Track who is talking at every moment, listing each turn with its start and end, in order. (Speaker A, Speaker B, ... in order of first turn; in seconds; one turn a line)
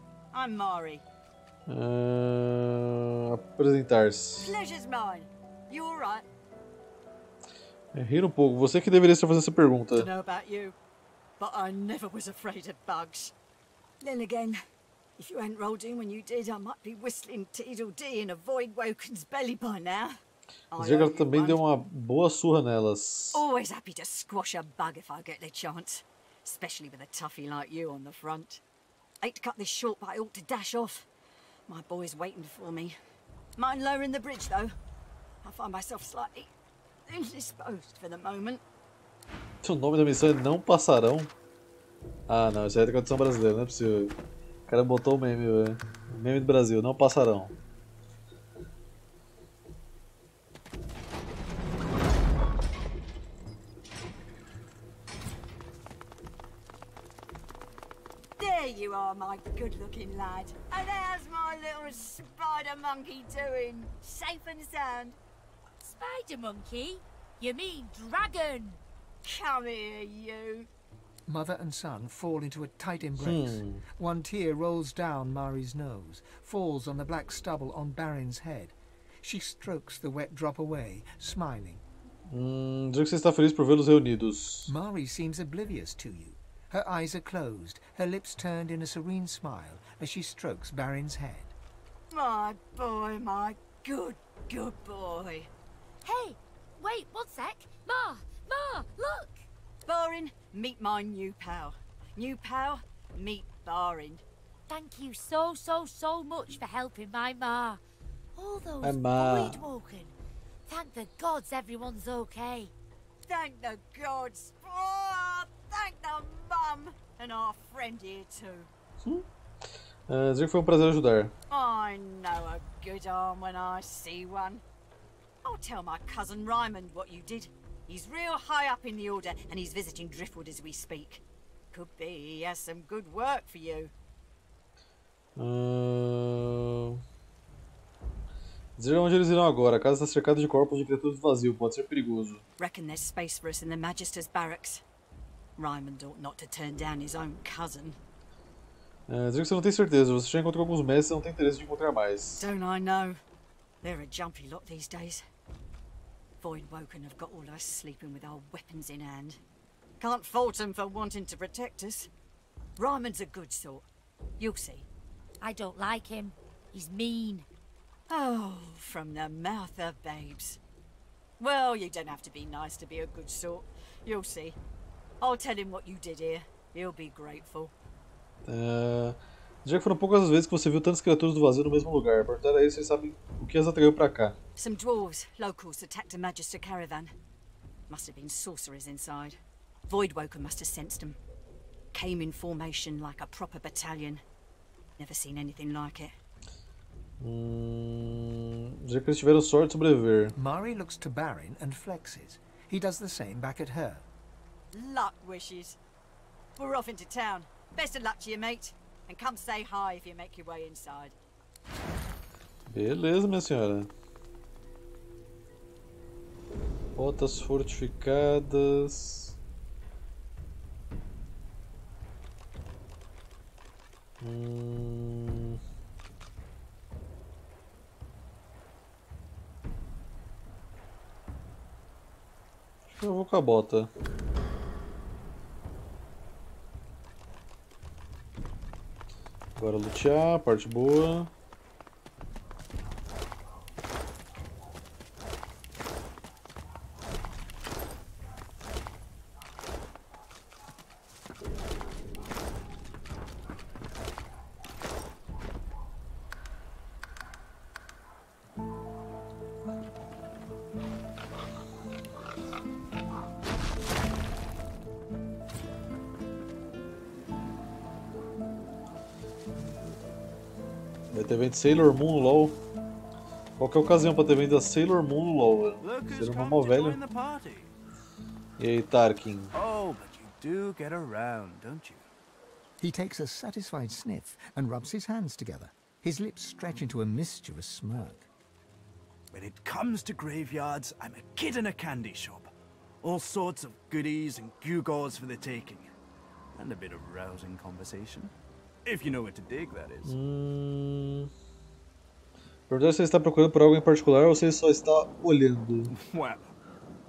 Speaker A: 0.3-1.0
Speaker B: 1.7-4.5
Speaker A: 4.4-6.2
Speaker B: 7.9-10.1
Speaker A: 9.9-10.8
Speaker A: 11.4-13.3
Speaker A: 14.0-14.6
Speaker A: 15.2-20.2
Speaker A: 20.7-21.6
Speaker B: 20.7-23.4
Speaker A: 23.3-28.6
Speaker A: 29.2-31.1
Speaker A: 31.7-33.0
Speaker A: 33.6-34.7
Speaker A: 35.4-36.5
Speaker A: 37.1-38.6
Speaker B: 39.6-41.3
Speaker B: 42.3-44.1
Speaker B: 44.7-47.5
Speaker A: 58.4-65.2
Speaker C: 65.8-68.8
Speaker A: 69.2-70.7
Speaker D: 71.2-81.8
Speaker B: 73.2-73.8
Speaker B: 82.3-84.7
Speaker D: 84.7-91.5
Speaker A: 92.1-95.5
Speaker C: 96.0-99.4
Speaker A: 99.8-104.2
Speaker C: 104.7-107.8
Speaker C: 108.3-110.1
Speaker B: 108.8-109.6
Speaker C: 110.7-112.7
Speaker A: 113.2-118.7
Speaker B: 120.1-121.3
Speaker A: 121.5-124.6
Speaker A: 125.4-133.9
Speaker B: 135.3-137.0
Speaker B: 138.8-142.4
Speaker A: 142.6-144.8
Speaker A: 145.6-148.0
Speaker B: 149.1-152.4
Speaker A: 152.4-153.2
Speaker A: 153.8-155.2
Speaker A: 156.4-159.4
Speaker A: 160.0-162.1
Speaker A: 162.8-163.8
Speaker A: 164.4-164.9
Speaker C: 165.4-167.5
Speaker A: 168.1-170.6
Speaker A: 171.4-174.6
Speaker A: 175.2-177.7
Speaker B: 178.4-184.3
Speaker A: 184.6-187.1
Speaker A: 187.9-191.2
Speaker A: 191.9-194.2
Speaker A: 195.0-196.1
Speaker B: 197.2-200.3
Speaker D: 200.3-204.1
Speaker A: 204.7-205.8
Speaker A: 206.6-211.2
Speaker B: 212.7-213.9
Speaker B: 216.9-219.3
Speaker B: 224.2-225.6
Speaker B: 232.9-233.9
Speaker B: 239.6-241.3
Speaker B: 271.1-272.6
Speaker B: 273.6-277.0
Speaker E: 275.8-277.7
Speaker B: 278.6-279.5
Speaker E: 279.5-282.1
Speaker D: 282.8-288.3
Speaker E: 289.3-292.5
Speaker E: 293.0-295.9
Speaker E: 296.6-298.3
Speaker E: 298.8-300.1
Speaker B: 300.1-301.3
Speaker B: 302.7-305.9
Speaker E: 305.9-306.5